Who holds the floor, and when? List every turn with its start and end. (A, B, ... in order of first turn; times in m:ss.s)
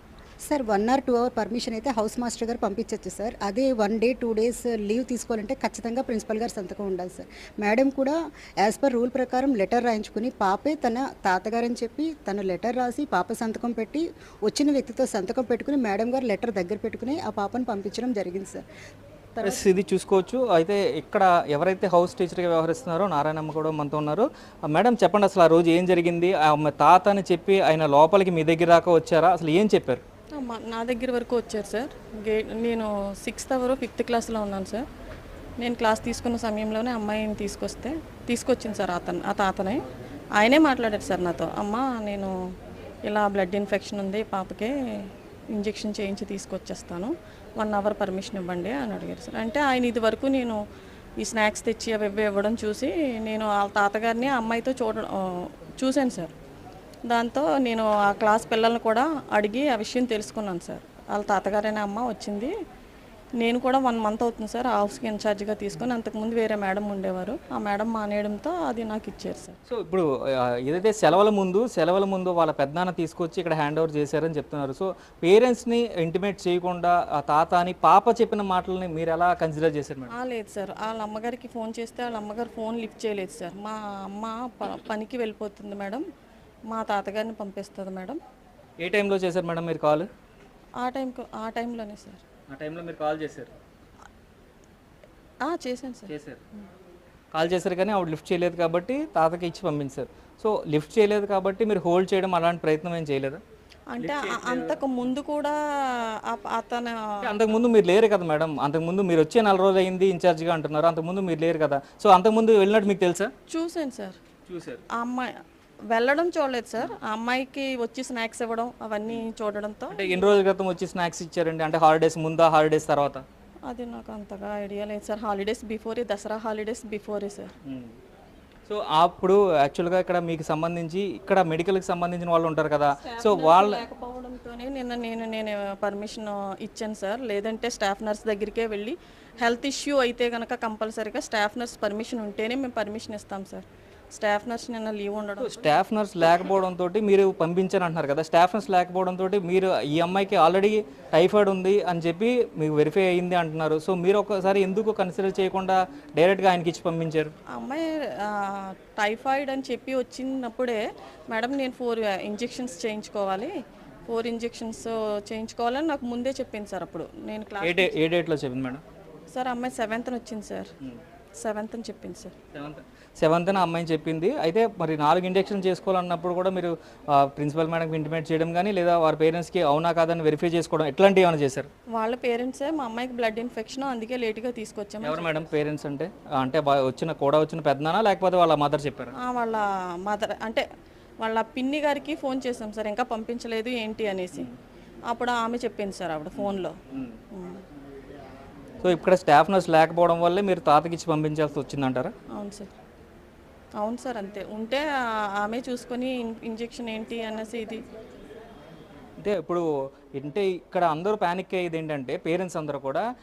0:00.5-0:18.6 A
0:19.4-0:19.7 A
0:19.4-0:30.0 B
0:30.4-0:34.8 C
0:35.6-0:39.8 C
0:40.4-0:42.3 C
0:43.1-0:50.6 C
0:51.2-0:56.3 C
0:57.1-1:02.5 C
1:03.4-1:09.6 C
1:09.7-1:10.1 B
1:10.6-1:20.1 B
1:20.1-1:26.0 C
1:26.7-1:28.2 C
1:28.8-1:30.1 B
1:30.8-1:32.2 C
1:32.5-1:33.5 B
1:35.4-1:36.1 C
1:36.1-1:36.4 B
1:37.3-1:43.4 B
1:43.9-1:47.4 C
1:44.0-1:44.8 B
1:47.2-1:53.3 B
1:53.5-1:54.2 C
1:54.5-1:54.8 B
1:55.0-1:55.3 C
1:55.9-2:00.3 C
1:59.9-2:03.2 B
2:03.7-2:07.5 C
2:07.6-2:08.0 B
2:08.7-2:13.8 B
2:13.0-2:25.6 C
2:25.4-2:37.3 B
2:37.5-2:43.5 C
2:44.1-2:47.9 C
2:47.6-2:48.8 B
2:49.3-2:50.7 C
2:51.4-2:52.4 C
2:52.5-3:01.7 B
3:02.0-3:05.3 C
3:05.0-3:09.1 B
3:09.2-3:10.6 C
3:11.2-3:14.5 C
3:15.1-3:16.8 C
3:16.4-3:17.2 B
3:17.3-3:17.6 C
3:18.8-3:22.1 B
3:22.3-3:22.7 C
3:23.8-3:24.9 C
3:25.4-3:27.8 C
3:29.2-3:33.0 B